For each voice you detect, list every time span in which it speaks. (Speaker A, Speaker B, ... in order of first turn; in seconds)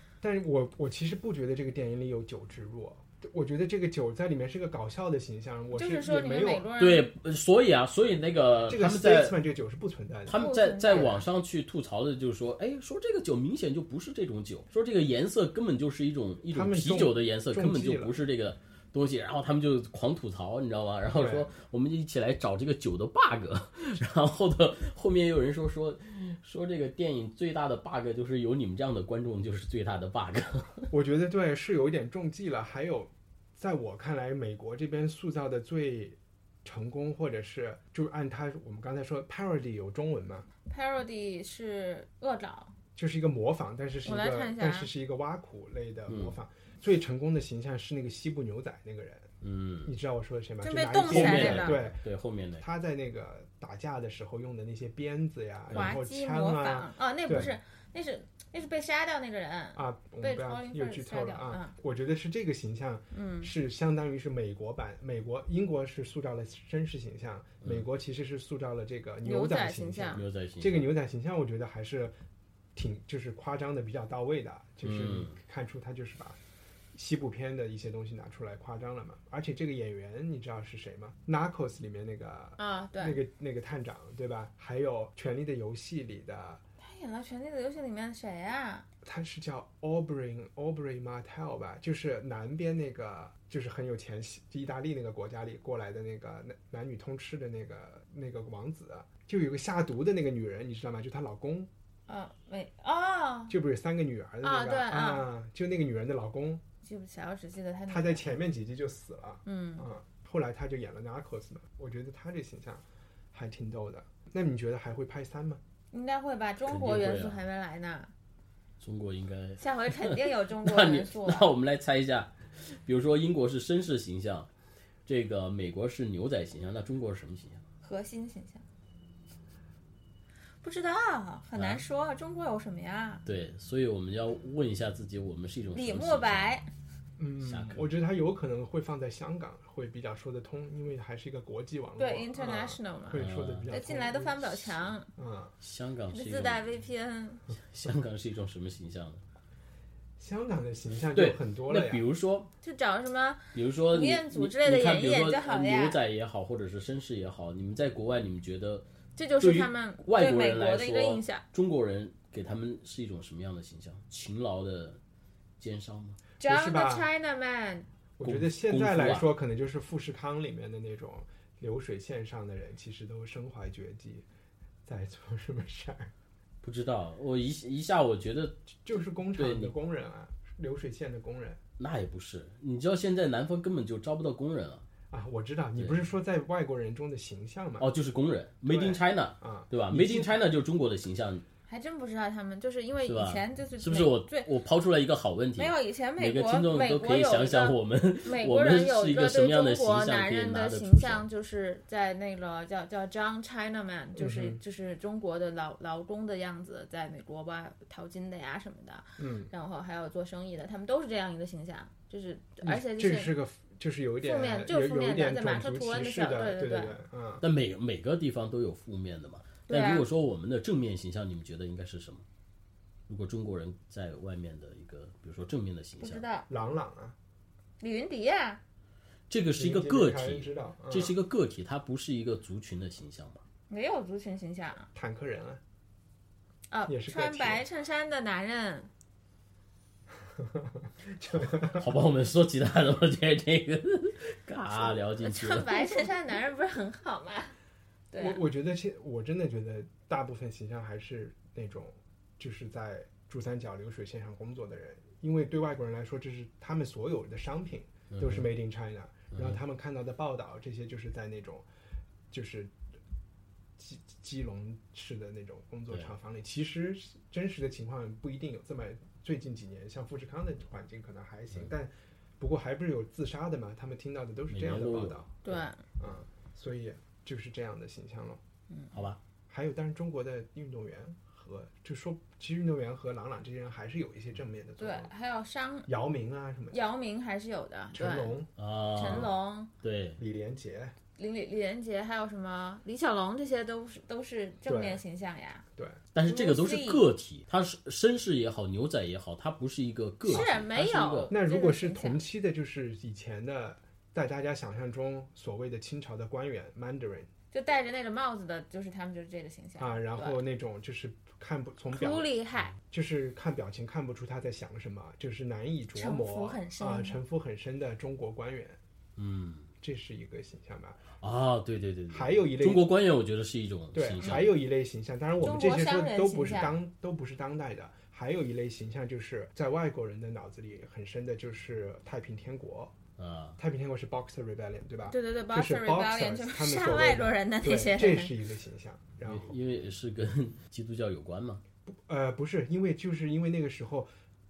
Speaker A: 0.2-6.7, 8.7-11.2, 16.5-18.1, 21.1-21.5, 30.9-40.5, 43.0-49.3, 49.8-52.0, 52.6-57.5, 59.7-72.2, 72.7-76.4, 76.9-86.6, 89.0-101.7, 103.5-106.6, 107.9-115.6, 137.2-145.5, 150.2-152.0, 166.4-167.1, 168.2-174.2, 174.8-176.1, 178.8-181.6, 185.1-187.9, 188.7-190.3, 204.2-204.6, 209.2-209.5, 212.6-217.4, 226.5-227.2, 229.5-231.2, 234.9-235.6, 236.9-237.6, 240.4-241.9, 248.2-261.7, 262.3-262.7, 263.8-278.4, 279.5-285.1, 285.9-286.8, 287.9-288.5, 290.2-290.9, 294.6-295.0, 301.3-307.3, 309.8-312.3, 312.9-318.8, 319.8-321.1, 322.1-322.9, 323.9-333.0, 333.6-339.5, 341.9-344.1
Speaker B: 5.7-7.1, 10.3-11.2, 40.6-42.7, 44.0-44.9, 50.6-51.8, 55.7-61.7, 63.1-63.5, 69.2-70.2, 82.6-83.2, 86.8-88.8, 102.1-103.5, 104.4-105.3, 106.8-108.3, 109.5-109.9, 115.9-118.1, 119.6-121.5, 127.8-128.6, 130.6-133.2, 135.7-136.7, 142.0-145.1, 146.1-147.4, 152.6-156.0, 159.2-161.4, 166.4-167.9, 191.7-194.5, 195.6-213.3, 214.2-217.0, 219.7-220.0, 226.0-226.5, 227.8-228.6, 233.7-234.9, 236.7-238.9, 245.2-247.5, 248.1-248.4, 275.4-275.8, 284.8-285.9, 286.7-288.4, 288.9-289.7, 291.2-295.6, 296.2-297.0, 300.3-302.2, 307.5-310.4, 311.9-312.7, 315.9-317.2, 325.4-326.8, 335.1-338.3
Speaker C: 6.8-9.3, 10.2-30.9, 46.1-46.4, 49.4-49.9, 51.1-52.6, 55.7-56.0, 70.1-70.9, 74.8-75.3, 116.7-117.4, 118.8-124.5, 125.0-127.6, 131.6-131.8, 133.2-136.6, 137.4-137.8, 143.1-143.7, 145.6-146.7, 147.7-149.2, 151.1-152.5, 153.5-158.8, 159.4-165.0, 165.6-166.2, 168.2-169.3, 176.6-179.7, 181.8-184.8, 185.8-186.1, 187.8-191.4, 193.0-201.2, 217.4-222.2, 223.1-226.2, 229.3-233.4, 241.6-246.1, 258.1-258.5, 259.3-259.6, 274.5-275.3, 278.9-279.2, 288.6-290.2, 296.1-301.3, 319.2-319.7, 321.2-324.5, 333.2-333.6, 339.2-341.6